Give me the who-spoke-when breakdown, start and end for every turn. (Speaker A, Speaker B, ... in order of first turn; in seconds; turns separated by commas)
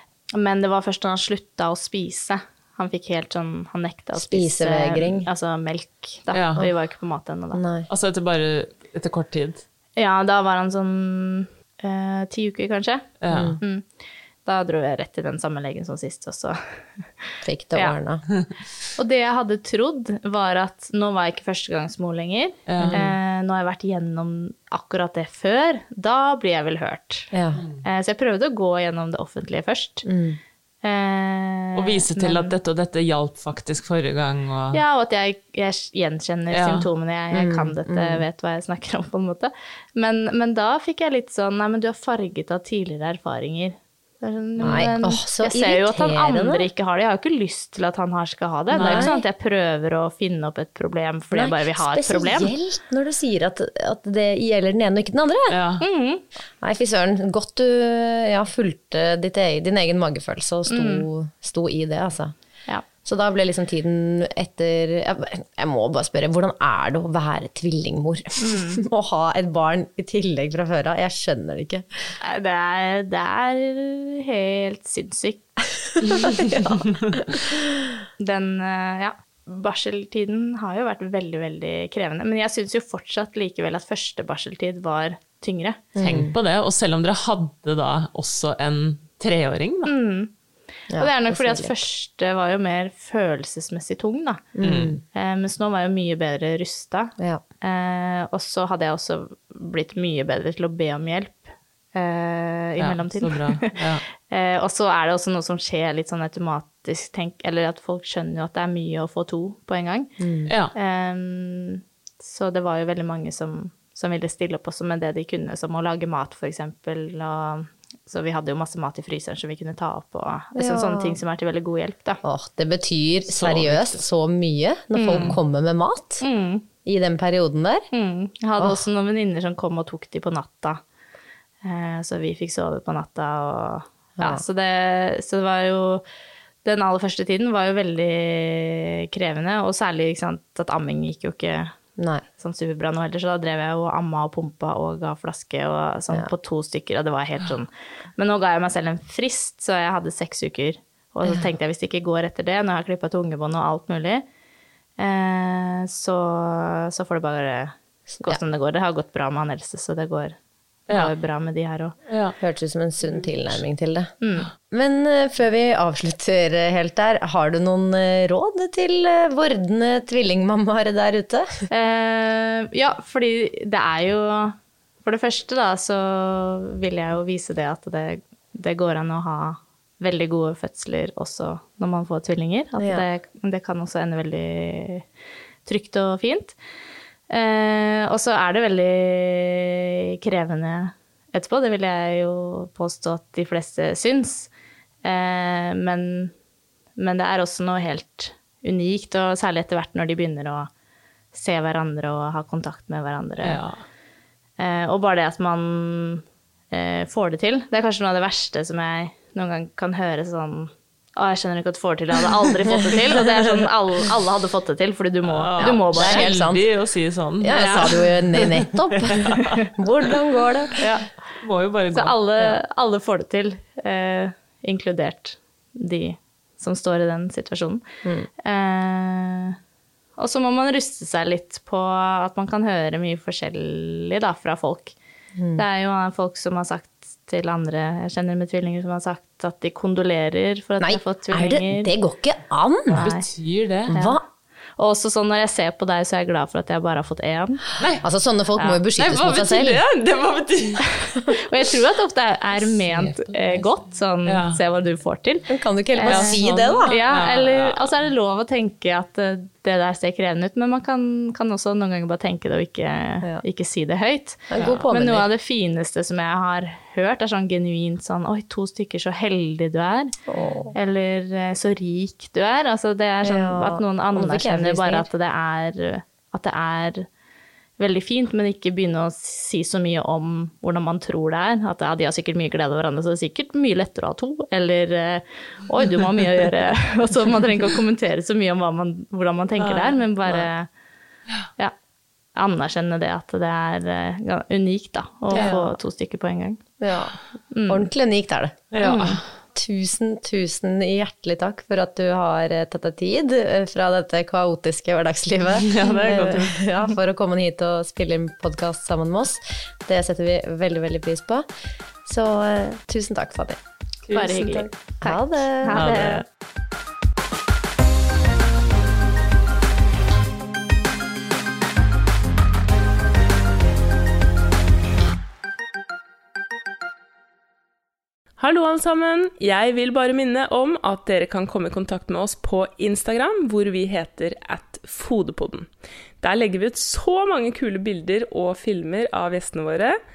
Speaker A: 0.3-7.6, Speaker B: 4.2-5.3, Speaker C: 6.3-6.6, Speaker B: 7.5-7.9, Speaker C: 7.9-9.6, Speaker A: 10.0-13.9, Speaker C: 13.2-13.6, Speaker B: 13.3-13.6, Speaker A: 14.4-17.9, Speaker B: 17.4-18.3, Speaker A: 19.0-27.3, Speaker C: 22.7-23.1, Speaker B: 22.8-23.1, Speaker B: 27.3-27.6, Speaker A: 27.8-30.1, Speaker B: 30.0-30.4, Speaker A: 30.8-32.5, Speaker C: 31.8-34.8, Speaker A: 34.7-52.5, Speaker C: 36.5-36.9, Speaker B: 37.3-38.2, Speaker B: 44.6-46.7, Speaker B: 48.7-49.2, Speaker C: 48.8-49.1, Speaker B: 51.3-55.6, Speaker C: 55.5-55.8, Speaker A: 55.8-56.2, Speaker B: 56.6-62.3, Speaker A: 60.7-61.1, Speaker B: 63.0-72.1, Speaker A: 68.4-68.8, Speaker A: 72.2-75.5, Speaker C: 76.0-77.1, Speaker B: 76.1-77.4, Speaker A: 78.2-85.9, Speaker B: 86.0-86.3, Speaker C: 86.0-89.9, Speaker A: 89.9-90.3, Speaker B: 90.9-91.8, Speaker A: 91.0-94.5, Speaker B: 94.6-95.0, Speaker C: 94.6-95.0, Speaker A: 95.1-110.1, Speaker B: 97.2-97.4, Speaker C: 102.8-104.0, Speaker B: 110.2-110.5, Speaker C: 110.5-110.7, Speaker A: 110.7-122.2, Speaker B: 120.5-121.2, Speaker B: 122.2-126.2, Speaker C: 123.3-124.0, Speaker A: 125.0-125.3, Speaker A: 126.2-126.7, Speaker B: 126.8-127.9, Speaker A: 127.9-130.8, Speaker A: 131.6-136.1, Speaker B: 134.2-134.4, Speaker A: 136.6-141.7, Speaker B: 142.0-142.2, Speaker A: 142.4-154.2, Speaker A: 155.0-160.4, Speaker A: 160.9-161.9, Speaker C: 162.1-162.3, Speaker B: 162.4-164.1, Speaker A: 164.2-164.5, Speaker B: 164.7-171.5, Speaker A: 171.7-185.1, Speaker B: 182.8-183.1, Speaker A: 185.7-186.6, Speaker A: 187.3-194.5, Speaker A: 195.0-196.3, Speaker A: 197.0-200.7, Speaker A: 201.3-203.6, Speaker C: 203.4-203.8, Speaker A: 204.6-216.3, Speaker B: 212.9-213.2, Speaker C: 215.3-219.4, Speaker B: 215.6-216.7, Speaker B: 217.4-220.8, Speaker A: 217.5-217.9, Speaker A: 220.8-221.1, Speaker C: 221.4-222.2, Speaker A: 221.9-227.8, Speaker B: 228.0-228.3, Speaker A: 228.4-229.6, Speaker A: 230.2-234.9, Speaker B: 235.4-235.6, Speaker A: 235.6-241.9, Speaker B: 240.8-243.1, Speaker C: 242.9-243.9, Speaker A: 242.9-243.2, Speaker B: 243.9-244.2, Speaker A: 244.8-247.7, Speaker C: 247.8-248.0, Speaker B: 248.0-249.8, Speaker C: 248.6-250.8, Speaker A: 251.1-270.1, Speaker C: 254.2-254.6, Speaker B: 255.5-257.0, Speaker C: 256.1-257.9, Speaker B: 264.5-265.3, Speaker C: 264.6-264.8, Speaker B: 270.3-270.8, Speaker A: 270.7-277.1, Speaker B: 273.2-275.1, Speaker A: 277.8-290.7, Speaker C: 289.6-290.0, Speaker A: 292.4-296.6, Speaker C: 295.3-295.6, Speaker B: 295.3-295.7, Speaker B: 296.8-298.8, Speaker A: 297.5-297.9, Speaker C: 298.7-299.2, Speaker A: 298.8-299.2, Speaker B: 299.5-311.5, Speaker C: 305.6-306.6, Speaker B: 312.1-313.6, Speaker A: 314.1-316.2, Speaker B: 314.1-315.9, Speaker C: 315.7-316.2, Speaker D: 328.4-335.7, Speaker D: 336.2-340.0